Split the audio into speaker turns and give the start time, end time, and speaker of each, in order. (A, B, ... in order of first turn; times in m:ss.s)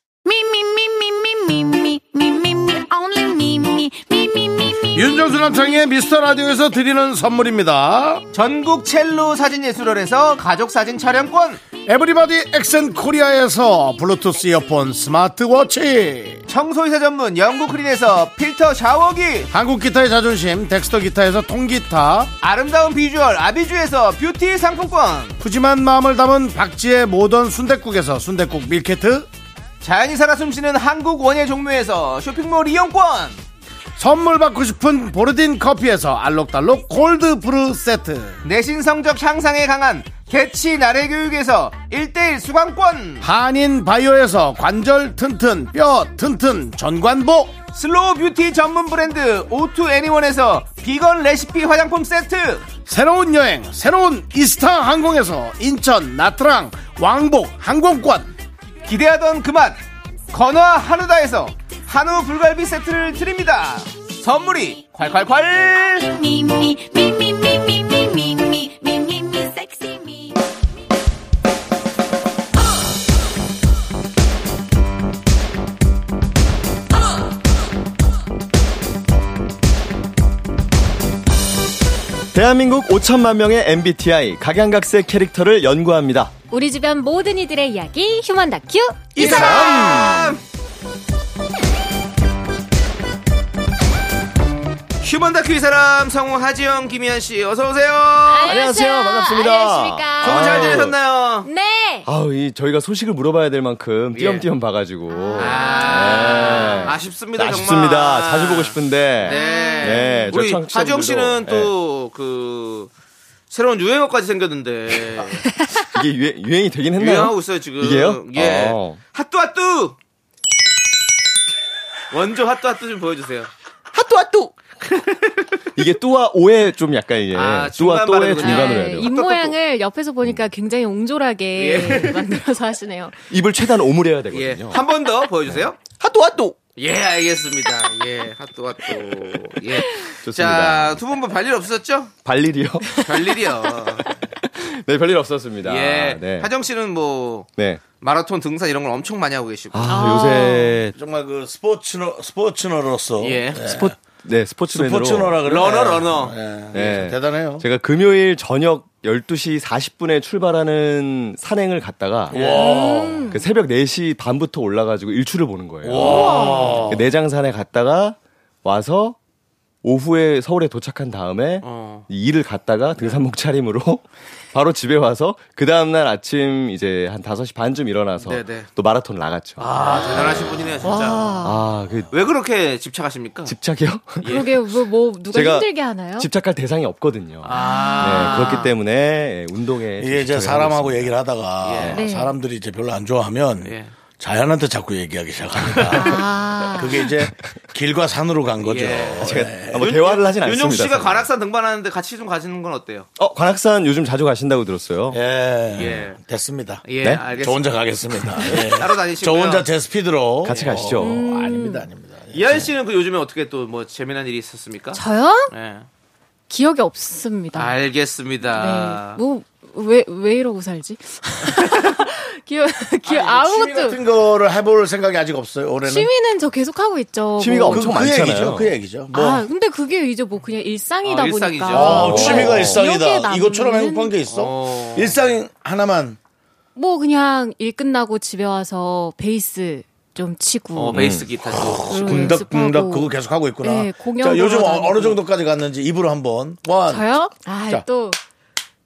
0:00.3-0:04.9 A
0:04.9-0:08.2 B
0:08.3-0:11.6 C
0:11.8-0:16.4 B
0:16.5-0:19.5 C
0:19.5-0:22.3 B
0:22.4-0:25.4 C
0:25.4-0:29.3 B
0:29.8-0:33.4 C
0:34.0-0:38.4 B
0:38.4-0:43.3 C
0:43.2-0:47.5 B
0:47.7-0:52.7 C
0:52.9-0:58.4 B
0:58.9-0:59.8 C
1:00.3-1:06.1 C
1:06.0-1:10.4 A
1:22.3-1:26.3 D
1:26.5-1:30.3 E
1:29.1-1:30.4 C
1:29.2-1:30.3 D
1:35.0-1:38.7 C
1:38.2-1:40.9 E
1:38.5-1:41.0 D
1:40.2-1:41.5 C
1:41.4-1:42.1 E
1:42.1-1:51.7 D
1:44.1-1:44.5 C
1:45.1-1:46.9 E
1:45.4-1:52.9 C
1:49.2-1:50.4 E
1:53.5-1:55.4 C
1:55.9-1:59.0 D
1:57.0-2:00.0 C
2:02.1-2:03.5 C
2:03.9-2:04.8 D
2:04.9-2:05.2 C
2:05.8-2:09.1 D
2:07.3-2:09.6 C
2:08.4-2:13.2 E
2:11.5-2:12.2 C
2:13.3-2:14.8 D
2:14.3-2:15.8 C
2:15.5-2:16.6 D
2:16.8-2:22.1 C
2:20.2-2:21.0 D
2:22.2-2:23.0 D
2:23.0-2:24.1 C
2:24.4-2:26.5 D
2:25.6-2:30.0 C
2:27.6-2:27.8 D
2:29.7-2:31.0 D
2:29.9-2:30.8 E
2:31.0-2:34.0 B
2:33.2-2:33.8 C
2:33.6-2:35.4 D
2:34.7-2:37.6 B
2:35.4-2:36.4 C
2:36.7-2:42.6 D
2:42.3-2:43.3 B
2:42.3-2:42.6 C
2:42.5-2:43.5 E
2:43.3-2:49.2 D
2:45.8-2:47.1 B
2:46.0-2:46.9 E
2:49.8-2:59.7 D
2:51.6-2:52.1 C
2:58.2-2:58.7 C
2:59.6-3:01.3 C
2:59.8-3:01.6 E
3:01.4-3:02.1 D
3:02.1-3:03.5 C
3:03.5-3:04.3 D
3:04.2-3:04.5 C
3:04.2-3:06.3 E
3:05.3-3:11.1 D
3:07.4-3:08.7 C
3:07.5-3:08.7 E
3:10.0-3:19.8 B
3:11.6-3:12.0 C
3:11.9-3:12.4 E
3:13.6-3:13.9 C
3:15.9-3:17.1 E
3:18.6-3:23.1 C
3:19.2-3:21.3 D
3:23.2-3:25.2 D
3:25.1-3:32.7 B
3:25.8-3:26.2 C
3:26.8-3:27.8 C
3:28.3-3:29.7 C
3:30.4-3:31.2 D
3:30.5-3:30.8 C
3:31.0-3:31.9 E
3:32.3-3:35.9 C
3:34.9-3:35.5 E
3:36.5-3:37.8 E
3:37.5-3:39.2 C
3:38.5-3:44.0 E
3:43.0-3:46.1 B
3:45.8-3:48.0 E
3:47.4-3:48.8 D
3:47.7-3:49.5 B
3:49.1-3:54.2 E
3:51.0-3:52.5 C
3:51.7-3:56.2 B
3:52.0-3:52.8 D
3:54.3-3:55.2 C
3:56.8-4:01.0 E
4:00.7-4:02.4 C
4:00.9-4:01.3 D
4:01.5-4:07.1 B
4:01.9-4:05.2 E
4:06.9-4:08.2 E